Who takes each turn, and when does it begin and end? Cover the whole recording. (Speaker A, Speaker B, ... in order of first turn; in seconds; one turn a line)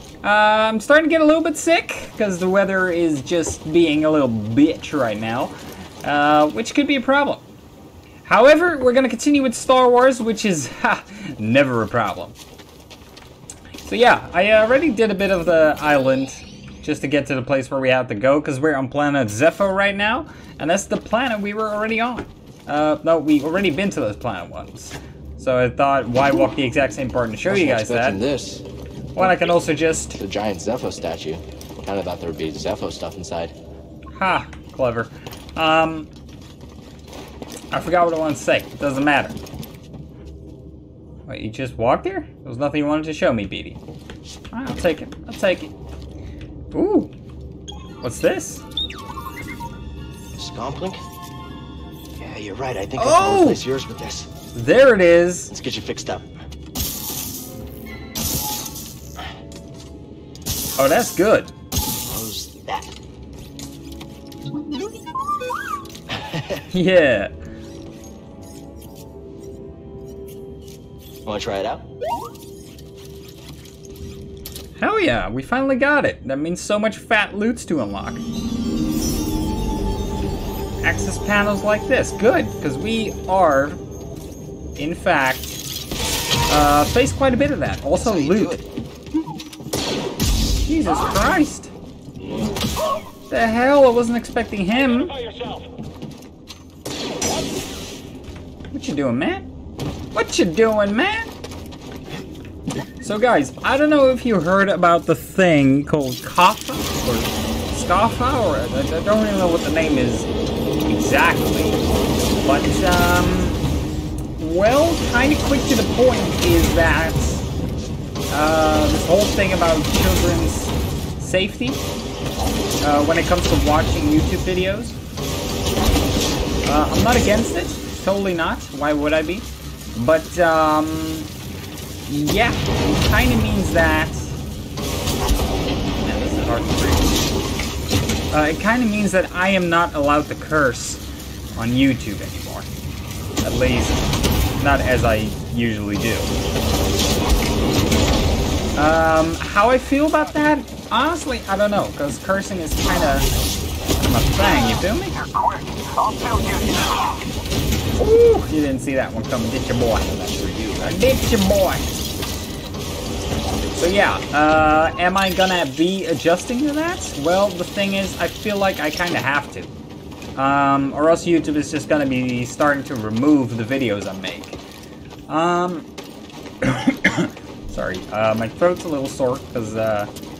Speaker A: 0.2-7.5
Speaker A: 8.2-12.4
Speaker A: 13.8-28.2
Speaker B: 27.5-28.6
Speaker A: 29.1-30.2
Speaker B: 30.2-33.5
Speaker A: 34.1-36.1
Speaker A: 37.7-39.4
Speaker A: 41.3-43.8
Speaker A: 44.5-45.7
Speaker A: 46.7-47.1
Speaker A: 48.0-48.7
Speaker B: 50.3-51.0
Speaker B: 52.2-54.3
Speaker A: 53.0-53.6
Speaker A: 54.5-55.5
Speaker B: 55.5-56.3
Speaker A: 60.8-61.5
Speaker B: 62.1-62.9
Speaker B: 66.1-66.6
Speaker A: 66.7-67.3
Speaker B: 71.2-71.8
Speaker A: 74.8-78.2
Speaker A: 80.8-83.8
Speaker A: 84.8-85.6
Speaker A: 86.5-88.5
Speaker B: 88.0-88.7
Speaker A: 90.7-91.7
Speaker A: 93.3-95.2
Speaker A: 98.7-99.5
Speaker A: 100.1-101.3
Speaker A: 103.0-110.3
Speaker A: 110.8-111.8
Speaker A: 112.4-113.6
Speaker A: 114.4-117.5
Speaker A: 118.3-121.8
Speaker A: 122.8-125.0
Speaker A: 126.7-131.3
Speaker A: 132.1-134.4
Speaker A: 136.0-137.2
Speaker A: 138.3-141.0
Speaker A: 141.6-142.7
Speaker A: 143.4-144.0
Speaker A: 144.6-146.3
Speaker A: 148.8-153.3
Speaker A: 154.0-155.2
Speaker A: 158.0-162.1
Speaker B: 160.5-161.0
Speaker A: 163.7-169.7
Speaker A: 170.3-174.6
Speaker A: 175.3-175.9
Speaker A: 176.6-180.1